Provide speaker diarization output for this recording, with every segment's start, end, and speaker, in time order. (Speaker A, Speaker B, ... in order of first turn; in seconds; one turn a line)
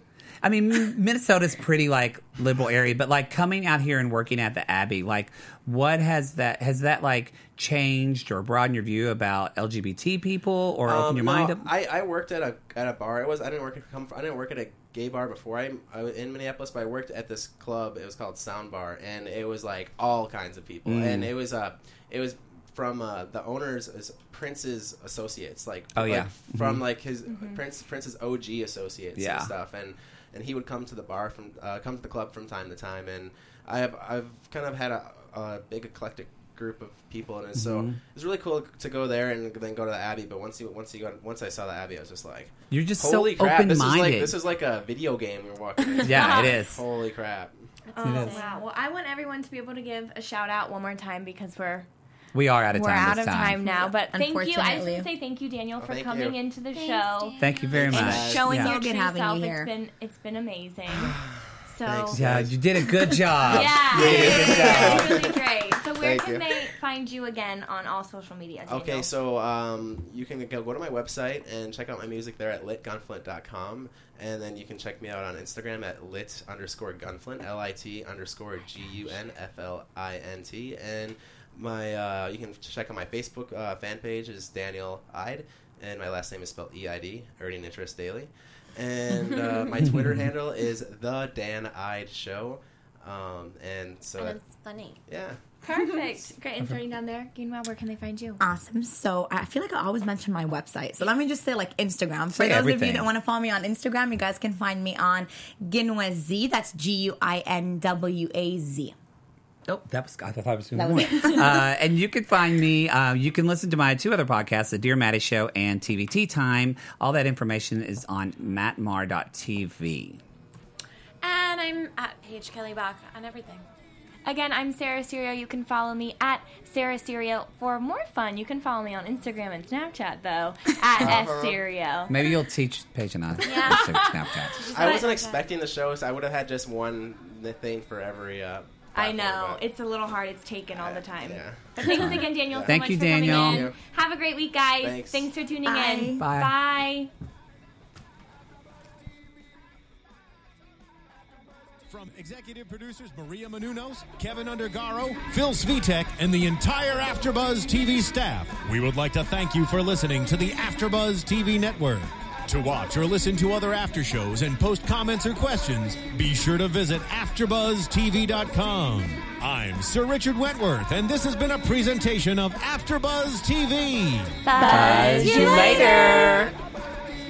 Speaker A: 0.4-11.7
Speaker B: 10.9-47.6
Speaker A: 20.9-21.3
Speaker A: 25.9-26.9
Speaker C: 27.3-27.6
Speaker A: 29.2-29.5
Speaker A: 37.5-38.0
Speaker A: 42.7-44.4
Speaker C: 46.0-46.6
Speaker A: 46.0-46.8
Speaker C: 47.9-51.9
Speaker D: 48.0-48.6
Speaker A: 48.0-48.4
Speaker A: 52.3-53.8
Speaker C: 52.7-61.2
Speaker E: 53.8-55.1
Speaker B: 55.8-56.4
Speaker D: 56.7-57.7
Speaker A: 57.4-58.8
Speaker B: 57.7-58.5
Speaker E: 58.4-59.7
Speaker B: 60.9-65.4
Speaker C: 61.7-62.2
Speaker A: 62.1-65.3
Speaker C: 63.5-69.1
Speaker B: 66.0-66.7
Speaker B: 68.7-94.4
Speaker A: 89.8-90.2
Speaker D: 94.2-95.0
Speaker B: 95.1-95.4
Speaker C: 95.6-98.4
Speaker E: 98.4-109.0
Speaker A: 102.3-103.1
Speaker A: 109.7-120.2
Speaker E: 110.7-111.7
Speaker D: 121.2-123.7
Speaker C: 124.2-132.3
Speaker B: 131.0-131.6
Speaker A: 132.1-134.6
Speaker D: 133.4-134.0
Speaker C: 133.4-135.1
Speaker D: 134.5-135.5
Speaker B: 134.7-139.6
Speaker C: 138.9-147.1
Speaker B: 140.7-143.8
Speaker A: 142.7-143.7
Speaker B: 144.8-145.3
Speaker E: 145.6-146.2
Speaker A: 146.2-146.6
Speaker F: 151.9-174.4
Speaker D: 174.5-176.3
Speaker C: 174.5-176.3
Speaker E: 174.6-175.3
Speaker A: 174.7-176.5